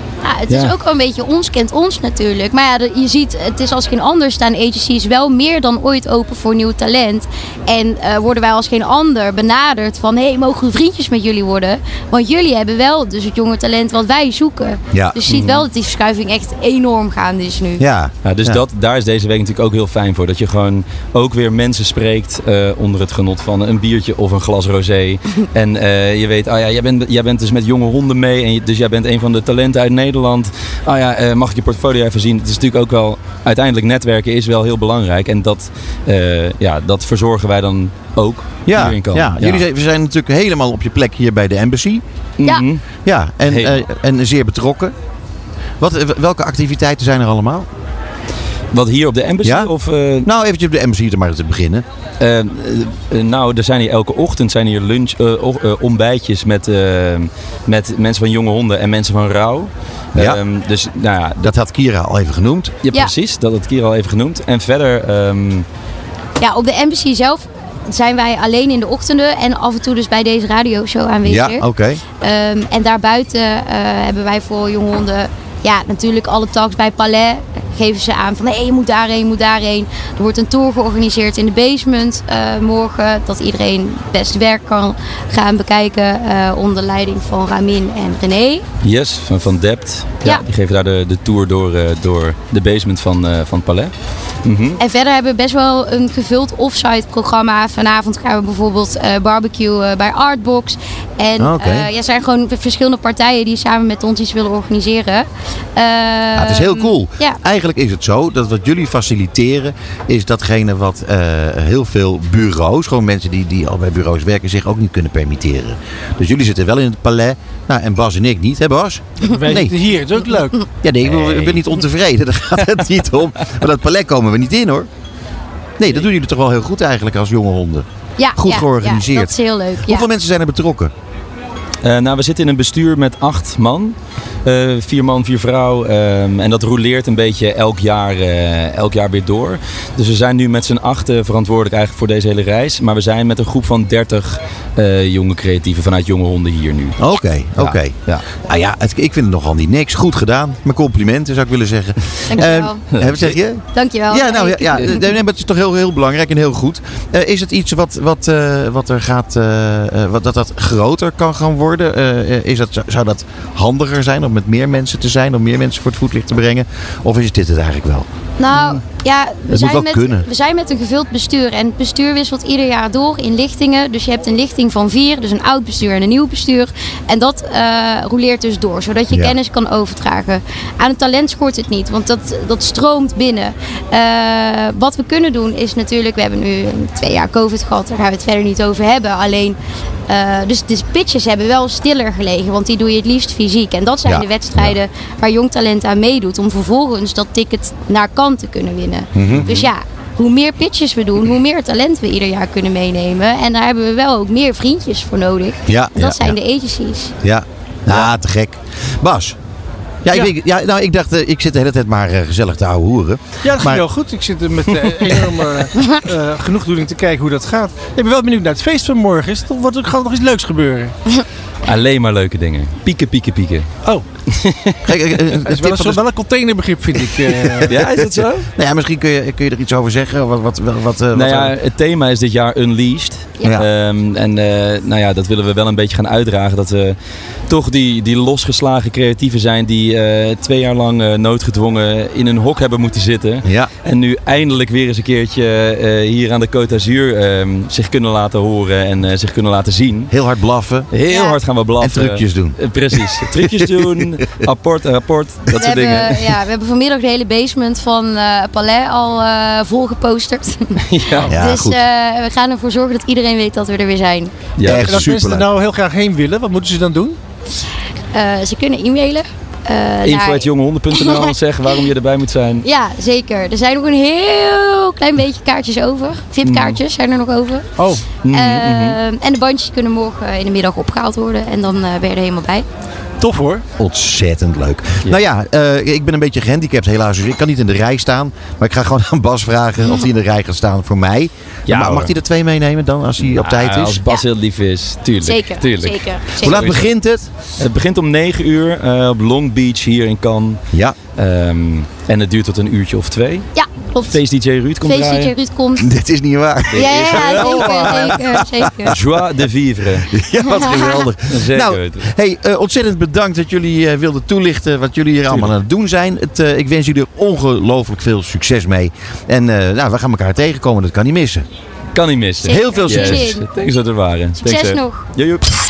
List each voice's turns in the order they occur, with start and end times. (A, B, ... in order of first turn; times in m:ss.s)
0:00.2-0:17.8 A
0:00.5-0:00.7 B
0:14.9-0:15.2 C
0:15.3-0:15.6 B
0:17.8-0:18.6 C
0:18.2-0:39.6 B
0:38.6-0:42.0 C
0:42.4-0:42.8 B
0:43.0-0:44.9 C
0:43.4-0:43.8 B
0:45.8-0:47.6 C
0:48.7-0:50.3 B
0:49.4-0:49.7 C
0:50.2-0:51.8 C
0:52.2-1:01.5 B
1:00.2-1:00.4 C
1:01.4-1:02.7 C
1:02.8-1:05.6 B
1:06.4-1:11.6 A
1:11.2-1:12.0 C
1:12.2-1:28.6 A
1:28.8-1:33.9 B
1:34.4-1:34.8 B
1:34.8-1:47.4 A
1:41.4-1:41.9 C
1:46.4-1:59.8 C
1:59.2-2:00.6 D
2:00.8-2:04.9 C
2:01.0-2:01.6 B
2:05.8-2:10.9 C
2:08.2-2:10.1 A
2:11.8-2:27.0 B
2:27.0-2:48.0 C
2:27.6-2:28.2 B
2:32.3-2:32.8 A
2:32.9-2:33.3 B
2:33.7-2:35.0 A
2:48.4-3:27.1 A
2:48.5-2:48.8 B
2:49.5-2:50.2 C
3:14.0-3:14.8 C
3:19.1-3:19.5 C
3:19.3-3:19.7 B
3:25.7-3:26.4 C
3:27.2-3:29.4 C
3:30.0-3:33.8 C
3:33.4-3:40.9 D
3:41.6-3:43.7 B
3:44.3-3:44.8 B
3:44.8-3:46.0 C
3:45.4-3:47.8 D
3:47.7-3:48.5 B
3:47.7-3:51.5 C
3:51.1-3:57.0 B
3:57.5-4:10.1 B
4:03.4-4:03.7 C
4:10.1-4:10.9 C
4:10.9-4:16.4 B
4:11.1-4:11.4 A
4:11.8-4:14.4 C
4:15.5-4:20.8 A
4:20.8-4:21.3 B
4:21.2-4:21.8 C
4:21.3-4:24.3 A
4:24.6-4:25.0 B
4:24.6-4:25.5 C
4:24.6-4:27.2 D
4:28.1-4:31.3 A
4:30.0-4:32.6 B
4:32.6-4:37.6 A
4:36.4-4:36.8 B
4:37.8-4:38.1 D
4:38.2-4:39.0 B
4:38.3-4:42.6 A
4:43.2-4:43.6 D
4:43.8-4:54.0 C
4:51.7-4:52.1 B
4:53.2-4:56.9 B
4:55.2-4:56.6 A
4:56.4-4:57.3 C
4:57.6-5:00.6 B
5:01.1-5:03.5 B
5:03.5-5:04.2 A
5:04.1-5:05.3 B
5:04.8-5:05.9 A
5:05.8-5:08.9 C
5:06.7-5:08.2 B
5:06.7-5:09.0 A
5:08.8-5:10.1 B
5:10.1-5:21.4 C
5:10.5-5:11.0 A
5:11.3-5:12.1 B
5:21.9-5:25.4 B
5:22.4-5:23.7 A
5:22.4-5:23.3 C
5:24.4-5:25.1 A